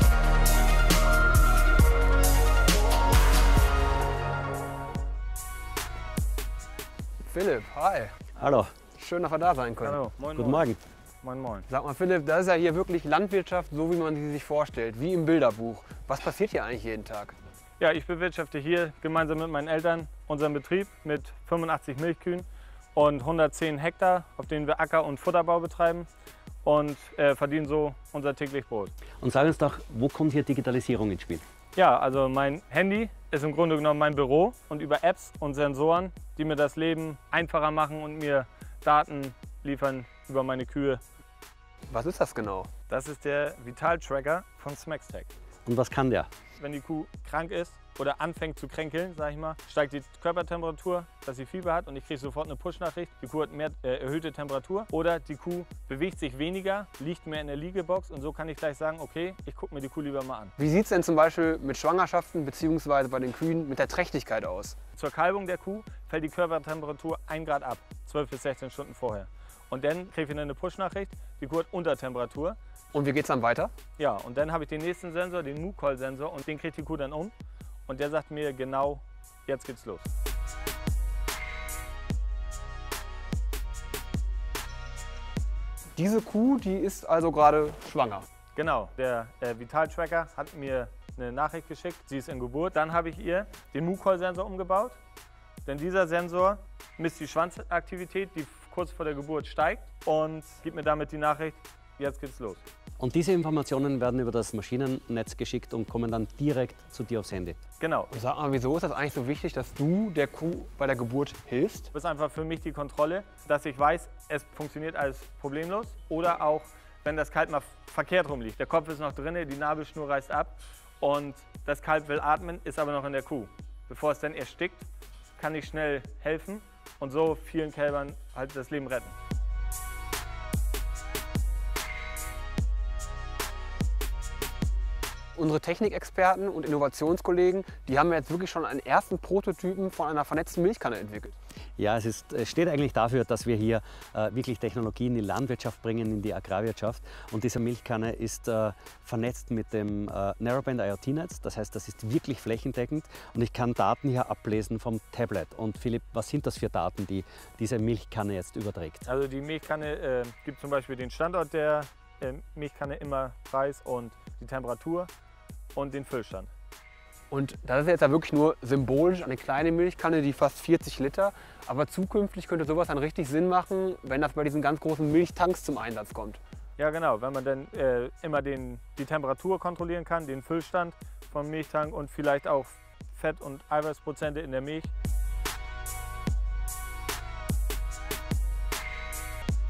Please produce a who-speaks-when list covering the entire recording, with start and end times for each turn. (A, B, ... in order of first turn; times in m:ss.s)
0:07.2-0:08.2 A
0:08.4-0:08.7 B
0:09.0-0:10.0 A
0:09.8-0:10.7 C
0:10.4-0:10.8 B
0:11.2-0:11.7 C
0:11.7-0:17.3 A
0:17.8-0:26.1 C
0:26.6-0:28.9 C
0:29.2-0:31.4 B
0:31.8-0:41.0 C
0:41.9-0:42.7 A
0:42.9-0:45.3 C
0:45.7-0:46.3 B
0:46.6-1:00.5 C
1:00.6-1:04.8 A
1:05.0-1:12.6 C
1:12.9-1:13.7 A
1:14.0-1:17.3 C
1:17.9-1:20.1 C
1:26.0-1:28.2 A
1:28.6-1:35.0 C
1:35.6-1:42.6 C
1:43.0-1:47.6 B
1:47.8-1:48.1 C
1:48.1-1:51.9 A
1:51.9-2:04.9 C
2:05.4-2:09.2 C
2:15.4-2:21.4 A
2:21.8-2:39.0 B
2:39.0-2:45.1 C
2:45.8-2:46.5 C
2:47.3-2:56.4 A
2:56.8-3:04.9 C